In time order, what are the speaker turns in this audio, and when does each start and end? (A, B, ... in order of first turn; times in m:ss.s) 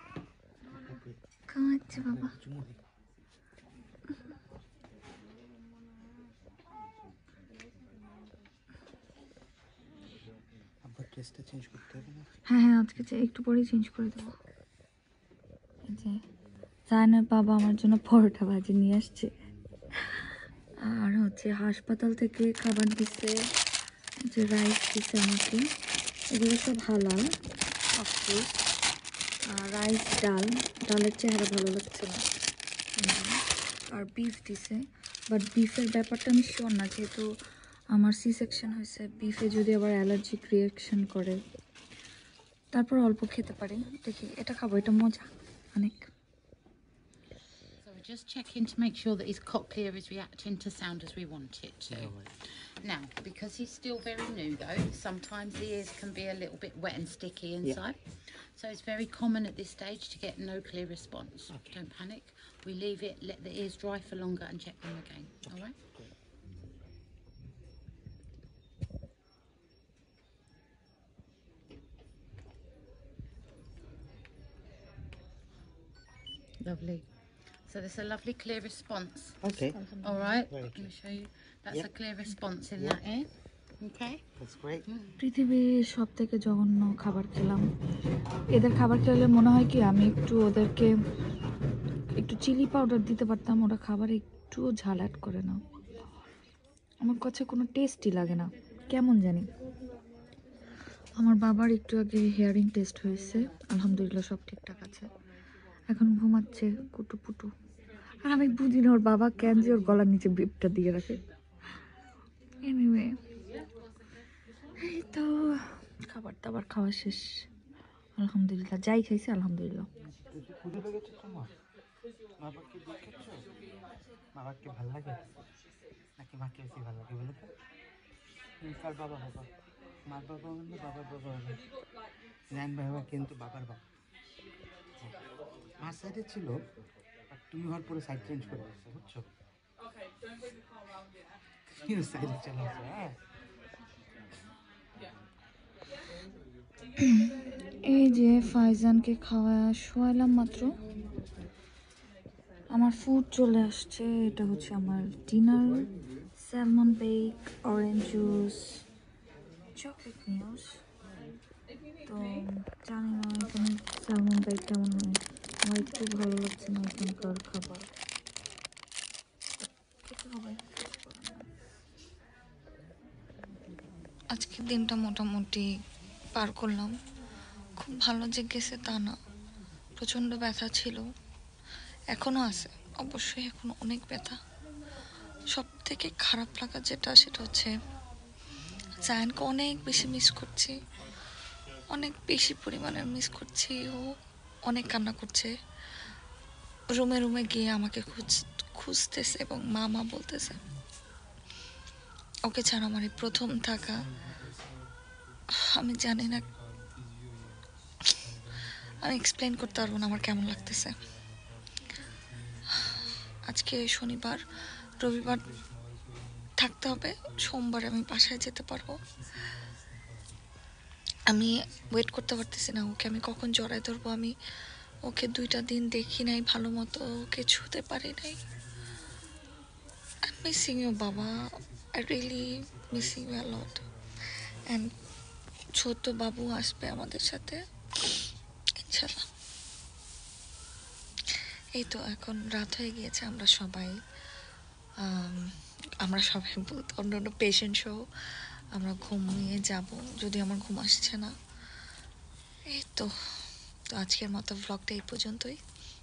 0:00.8-0:01.2 A
0:01.5-0:02.4 B
0:01.9-0:02.8 A
0:10.8-0:12.4 A
0:12.5-0:14.3 B
0:15.9-0:16.2 B
0:16.9-0:19.3 B
0:20.8-0:23.4 B
0:24.3-0:25.6 B
0:26.3-0:27.3 B
0:27.9-0:28.6 B
0:29.5-0:32.2 B
0:33.0-0:37.2 B
0:37.9-0:41.4 B
0:42.7-0:46.1 B
0:47.8-1:05.8 C
0:51.9-0:52.3 A
1:01.5-1:01.8 A
1:16.6-1:17.1 C
1:17.7-1:19.4 C
1:19.4-1:19.8 A
1:19.5-1:20.4 B
1:20.0-1:24.2 C
1:20.5-1:20.9 A
1:24.4-1:24.8 A
1:24.8-1:25.2 C
1:25.2-1:27.6 B
1:28.5-1:30.9 B
1:32.2-1:35.6 B
1:37.0-1:39.5 B
1:41.2-1:45.1 B
1:45.9-1:47.5 B
1:48.2-1:51.2 B
1:52.6-1:53.1 B
1:54.8-1:57.5 B
1:58.2-1:59.9 B
2:00.1-2:01.5 A
2:02.4-2:03.4 A
2:04.4-2:05.2 A
2:06.2-2:07.5 A
2:08.6-2:09.5 A
2:10.1-2:11.6 A
2:12.5-2:13.8 A
2:15.8-2:16.5 A
2:17.3-2:19.3 A
2:21.7-2:23.2 A
2:27.0-2:27.3 B
2:27.8-2:30.7 B
2:32.7-2:38.8 B
2:39.8-2:40.8 B
2:42.0-2:47.9 B
2:49.6-2:51.5 B
2:54.3-2:55.7 B
2:56.3-2:57.0 B
2:57.8-2:59.2 B
3:00.0-3:01.1 B
3:02.1-3:04.4 B
3:05.5-3:07.7 B
3:09.0-3:10.8 B
3:11.9-3:15.5 B
3:16.9-3:20.6 B
3:22.4-3:24.1 B
3:25.6-3:26.5 B
3:29.0-3:31.0 B
3:33.4-3:34.4 B
3:35.0-3:35.4 B
3:36.6-3:39.0 B
3:41.3-3:44.3 B
3:45.0-3:48.4 B
3:50.3-3:53.8 B
3:54.7-3:54.9 B
3:55.8-3:57.6 B
3:58.8-3:59.2 B
4:01.8-4:04.0 B
4:05.0-4:08.1 B
4:08.7-4:11.4 B
4:12.7-4:13.1 B
4:13.9-4:15.6 B